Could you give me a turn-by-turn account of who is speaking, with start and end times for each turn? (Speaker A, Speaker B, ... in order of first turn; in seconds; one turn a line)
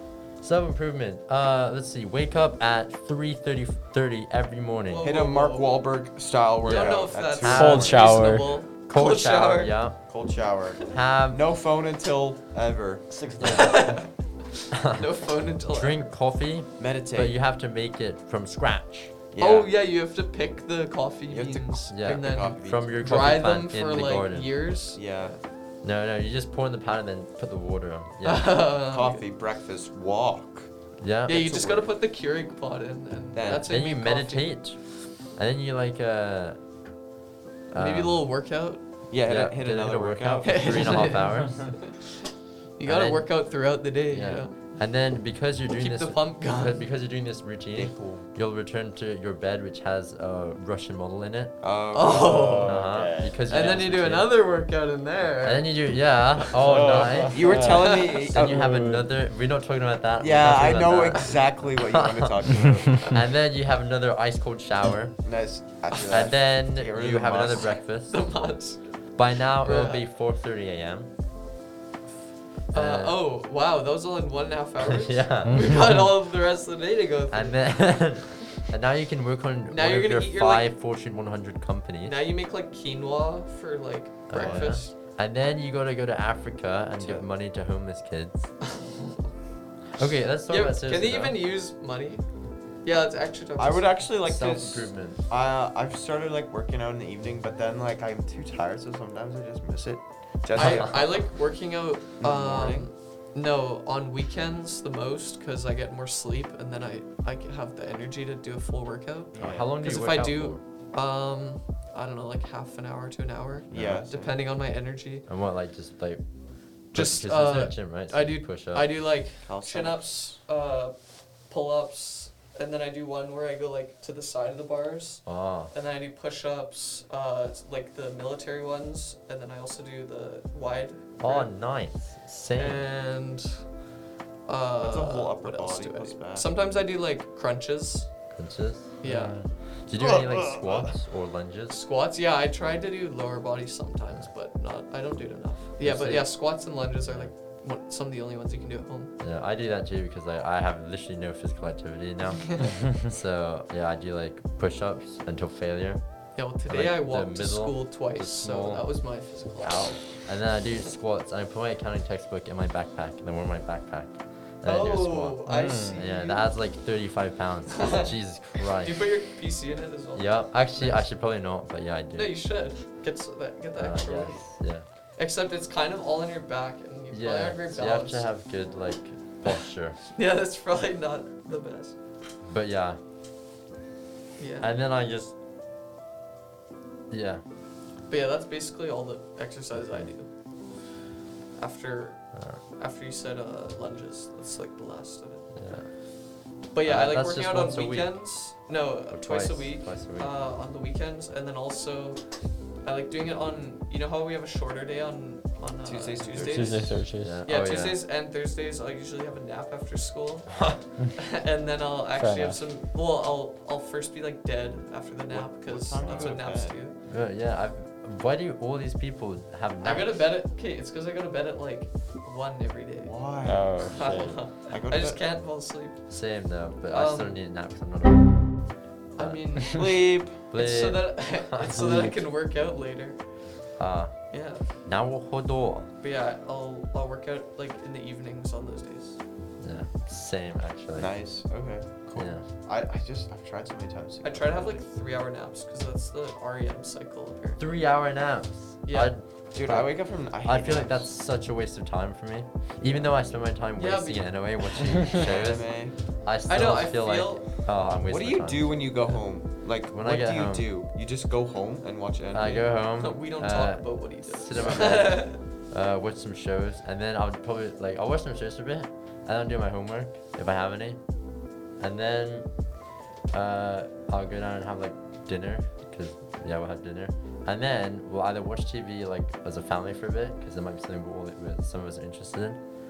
Speaker A: 0.4-5.1
Speaker B: 4.9-5.8
Speaker C: 5.0-8.1
Speaker B: 6.6-9.7
Speaker A: 6.7-8.3
Speaker D: 7.5-8.5
Speaker A: 8.9-10.0
Speaker C: 10.1-13.1
Speaker A: 10.9-11.4
Speaker D: 13.1-14.0
Speaker A: 13.4-13.9
Speaker B: 13.5-14.1
Speaker A: 14.7-15.0
Speaker B: 14.9-16.1
Speaker A: 15.7-19.1
Speaker C: 16.8-17.4
Speaker C: 19.3-19.7
Speaker B: 19.4-25.4
Speaker C: 21.3-23.1
Speaker A: 21.9-24.5
Speaker C: 24.9-25.4
Speaker A: 25.8-28.6
Speaker B: 28.2-29.2
Speaker C: 28.9-30.7
Speaker A: 31.0-31.5
Speaker B: 31.3-34.5
Speaker C: 31.3-31.9
Speaker C: 33.3-33.7
Speaker A: 33.5-36.6
Speaker A: 37.7-38.2
Speaker B: 37.8-38.8
Speaker C: 39.1-41.2
Speaker A: 39.3-41.8
Speaker B: 40.4-42.0
Speaker B: 42.8-44.6
Speaker A: 42.8-43.3
Speaker A: 44.1-51.6
Speaker B: 45.7-46.8
Speaker C: 47.8-48.3
Speaker C: 51.6-52.7
Speaker B: 51.9-52.9
Speaker D: 52.1-53.7
Speaker A: 52.6-54.3
Speaker B: 53.5-55.8
Speaker A: 55.4-62.4
Speaker D: 56.5-59.1
Speaker C: 57.3-58.8
Speaker B: 57.8-58.2
Speaker C: 60.2-63.2
Speaker A: 63.0-65.2
Speaker C: 65.2-67.8
Speaker A: 66.1-68.5
Speaker B: 68.1-70.0
Speaker A: 69.1-71.1
Speaker B: 72.7-78.1
Speaker A: 72.7-73.2
Speaker A: 74.9-75.8
Speaker D: 75.5-75.8
Speaker A: 77.3-82.2
Speaker B: 79.7-80.7
Speaker B: 82.0-84.9
Speaker A: 84.3-88.5
Speaker C: 84.4-84.8
Speaker C: 87.0-87.3
Speaker B: 88.6-89.3
Speaker A: 90.0-91.4
Speaker B: 90.5-92.2
Speaker B: 92.8-94.0
Speaker C: 93.6-101.3
Speaker A: 94.2-95.2
Speaker B: 100.5-115.3
Speaker A: 100.6-101.0
Speaker C: 102.2-102.9
Speaker C: 109.3-109.7
Speaker A: 109.4-110.6
Speaker C: 113.7-114.4
Speaker A: 115.3-116.2
Speaker A: 116.9-118.9
Speaker B: 116.9-121.0
Speaker C: 119.4-120.1
Speaker B: 121.5-131.5
Speaker A: 125.2-125.7
Speaker A: 131.2-132.8
Speaker B: 132.6-133.7
Speaker B: 134.5-138.1
Speaker C: 134.8-136.5
Speaker A: 138.3-141.8
Speaker B: 139.0-139.4
Speaker D: 139.0-139.4
Speaker C: 140.0-140.9
Speaker B: 141.7-149.1
Speaker A: 145.8-146.4
Speaker A: 147.1-147.3
Speaker A: 149.2-156.0
Speaker B: 156.4-160.0
Speaker A: 156.7-158.9
Speaker A: 159.6-169.0
Speaker B: 164.6-166.5
Speaker D: 165.5-166.0
Speaker B: 167.7-168.1
Speaker B: 168.8-171.1
Speaker A: 170.2-172.3
Speaker B: 172.2-174.5
Speaker A: 173.8-174.8
Speaker B: 175.2-178.3
Speaker A: 177.1-180.0
Speaker B: 180.1-182.0
Speaker A: 182.4-183.0
Speaker B: 184.4-184.7
Speaker A: 184.6-185.3
Speaker A: 187.1-187.4
Speaker B: 188.1-190.3
Speaker B: 191.6-195.5
Speaker A: 192.3-192.6
Speaker A: 195.6-195.9
Speaker B: 196.7-202.2
Speaker A: 196.8-198.2
Speaker A: 199.1-200.3
Speaker B: 202.8-217.0
Speaker C: 205.8-207.0
Speaker D: 206.3-207.4
Speaker A: 207.2-208.0
Speaker D: 212.2-212.6
Speaker C: 215.3-216.8
Speaker D: 216.0-216.4
Speaker A: 217.1-220.2
Speaker B: 219.8-223.2
Speaker C: 223.0-225.2
Speaker D: 223.4-224.4
Speaker B: 223.8-226.1
Speaker A: 226.1-228.5
Speaker B: 226.9-227.4
Speaker B: 229.2-233.2
Speaker A: 229.2-229.7
Speaker C: 229.7-230.4
Speaker A: 230.5-232.1
Speaker A: 233.8-234.2
Speaker B: 234.3-234.7
Speaker A: 234.8-235.9
Speaker B: 236.0-239.2
Speaker A: 239.6-241.1
Speaker C: 241.0-244.8
Speaker A: 242.1-242.4
Speaker B: 244.2-247.6
Speaker A: 247.6-259.1
Speaker B: 248.9-249.1
Speaker C: 249.5-251.1
Speaker C: 252.8-253.1
Speaker B: 253.8-255.1
Speaker C: 255.1-256.0
Speaker B: 256.5-257.5
Speaker C: 258.0-262.7
Speaker A: 259.9-260.7
Speaker A: 262.3-271.0
Speaker B: 263.0-265.4
Speaker A: 271.8-272.5
Speaker A: 273.3-282.6